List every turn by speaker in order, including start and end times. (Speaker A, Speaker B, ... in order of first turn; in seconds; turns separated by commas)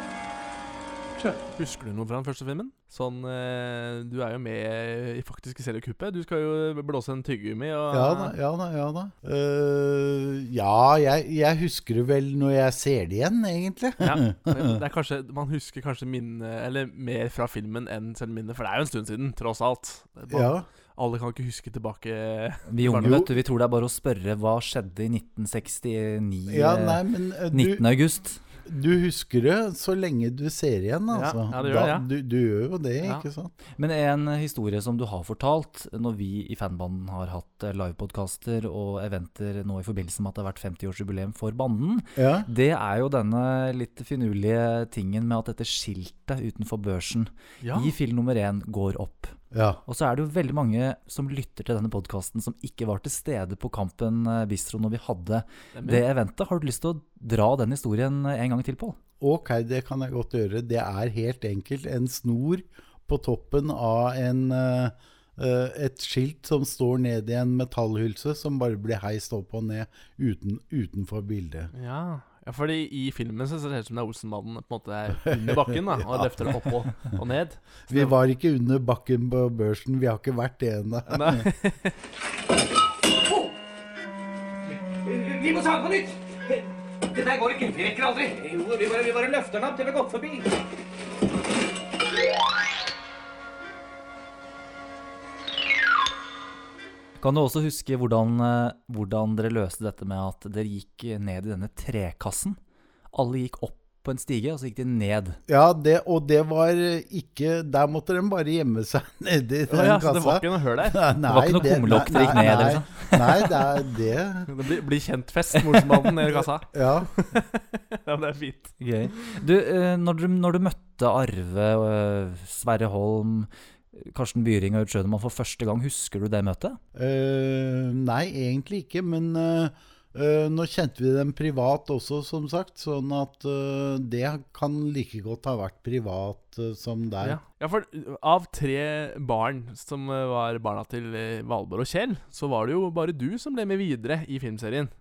Speaker A: 1.6-8.3, Speaker B: 7.9-14.8, Speaker A: 14.0-23.2, Speaker B: 20.3-20.6, Speaker C: 22.7-28.4, Speaker B: 23.0-23.3, Speaker B: 26.5-27.9, Speaker B: 28.6-33.5, Speaker A: 31.1-32.1, Speaker C: 33.8-59.0, Speaker B: 42.1-42.5, Speaker A: 47.6-47.9, Speaker B: 49.5-49.8, Speaker A: 55.7-56.0, Speaker B: 59.2-71.7, Speaker A: 71.7-78.2, Speaker B: 75.3-77.0, Speaker B: 77.9-81.4, Speaker A: 81.1-82.0, Speaker D: 85.0-90.5, Speaker C: 97.2-102.6, Speaker C: 103.1-105.4, Speaker B: 105.5-114.5, Speaker A: 109.7-111.0, Speaker C: 111.3-113.4, Speaker A: 112.3-112.5, Speaker A: 114.5-119.2, Speaker B: 116.7-117.1, Speaker C: 118.8-126.8, Speaker B: 126.9-137.4, Speaker A: 137.2-144.9